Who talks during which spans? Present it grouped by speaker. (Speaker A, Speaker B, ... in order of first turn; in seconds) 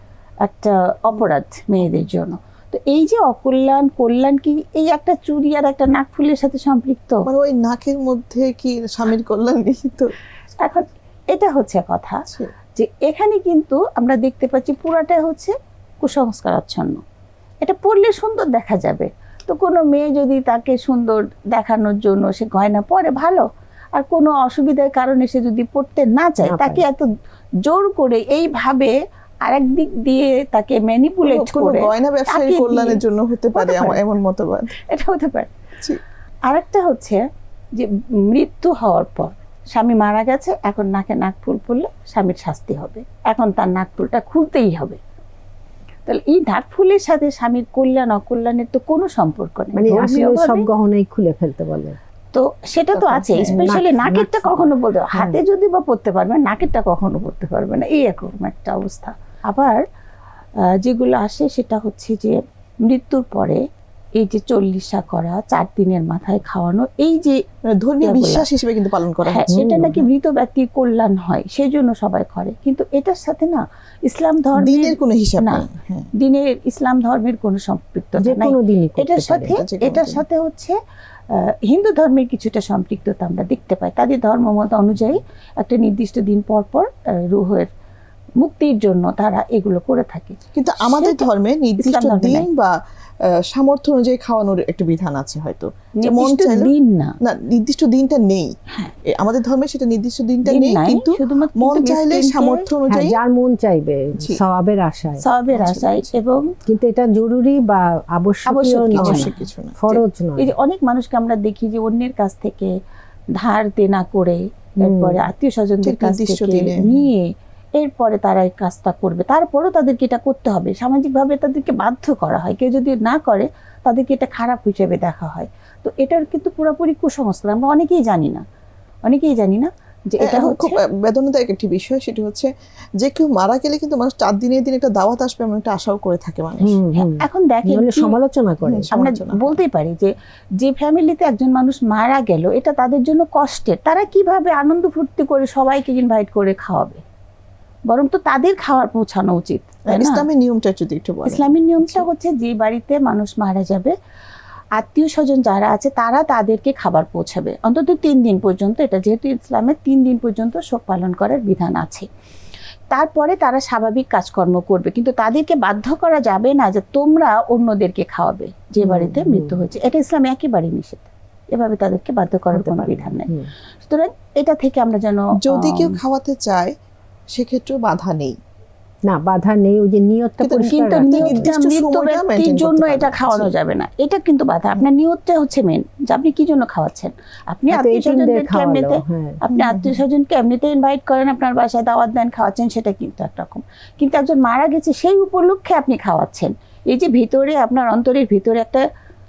Speaker A: 0.4-7.2, 10.6-12.2, 12.8-17.0, 17.6-27.1, 27.6-28.9, 29.4-33.0, 33.6-34.0, 34.8-35.5, 36.5-37.2, 37.7-45.0, 46.0-50.6, 52.3-59.8, 60.6-63.6, 64.2-67.4, 68.0-68.5, 69.2-80.8, 81.3-87.7, 88.4-91.2, 91.8-92.5, 96.0-97.2, 100.5-102.7, 105.2-106.5, 108.5-112.7, 113.4-128.4, 129.0-130.8, 136.9-138.1, 138.9-147.0, 147.9-150.2, 151.2-153.9, 154.8-162.1, 162.9-176.0, 180.7-198.8
Speaker B: 7.2-10.1, 31.2-34.8, 53.0-53.7, 67.7-70.0, 74.5-76.1, 79.5-80.2, 90.5-96.7, 97.2-98.5, 99.0-103.2, 105.5-106.1, 109.0-109.8, 115.8-117.0, 130.2-136.8, 138.6-139.6, 149.9-152.1, 175.4-176.7, 177.3-178.4, 180.4-183.5, 189.5-189.9
Speaker C: 26.4-26.9, 49.8-52.0, 53.5-55.4, 69.5-70.1, 78.2-79.6, 102.9-105.2, 106.7-110.5, 114.8-115.3, 136.6-138.9, 168.8-169.6, 172.5-173.5, 179.1-181.5, 187.7-189.4